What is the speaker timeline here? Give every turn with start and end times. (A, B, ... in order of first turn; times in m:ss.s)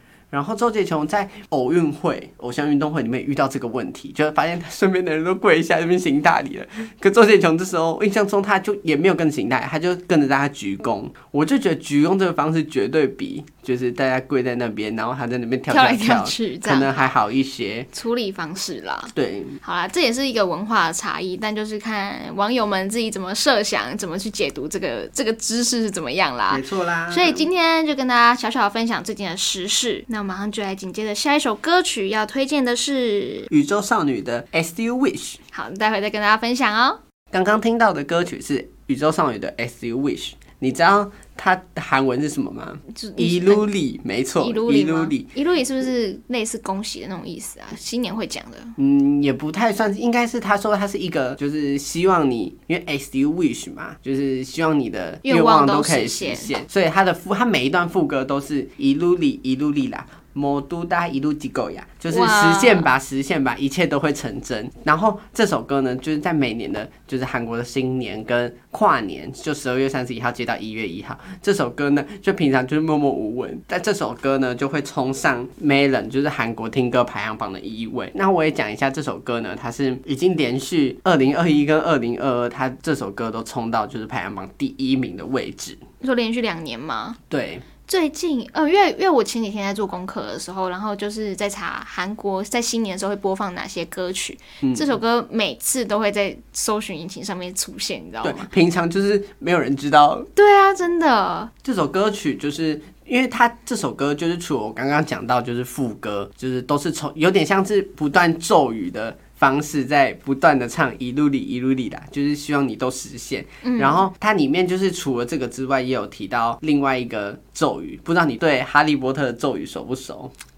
0:00.3-0:17.9 A
0:15.7-0:17.0 B
0:17.9-0:19.1 B
0:19.1-0:19.6 A
0:19.6-0:33.5 B
0:26.5-0:27.5 A
0:33.5-0:35.4 A
0:35.5-0:37.0 B
0:37.3-0:45.3 A
0:42.9-0:43.6 B
0:44.4-0:48.7 B
0:48.8-1:25.8 A
0:55.2-0:56.6 B
1:02.1-1:02.9 B
1:26.0-1:27.2 B
1:27.3-1:27.6 A
1:27.9-1:38.5 B
1:34.6-1:34.9 A
1:38.2-1:40.3 A
1:40.4-1:41.5 B
1:41.6-2:00.3 A
1:53.6-1:54.1 B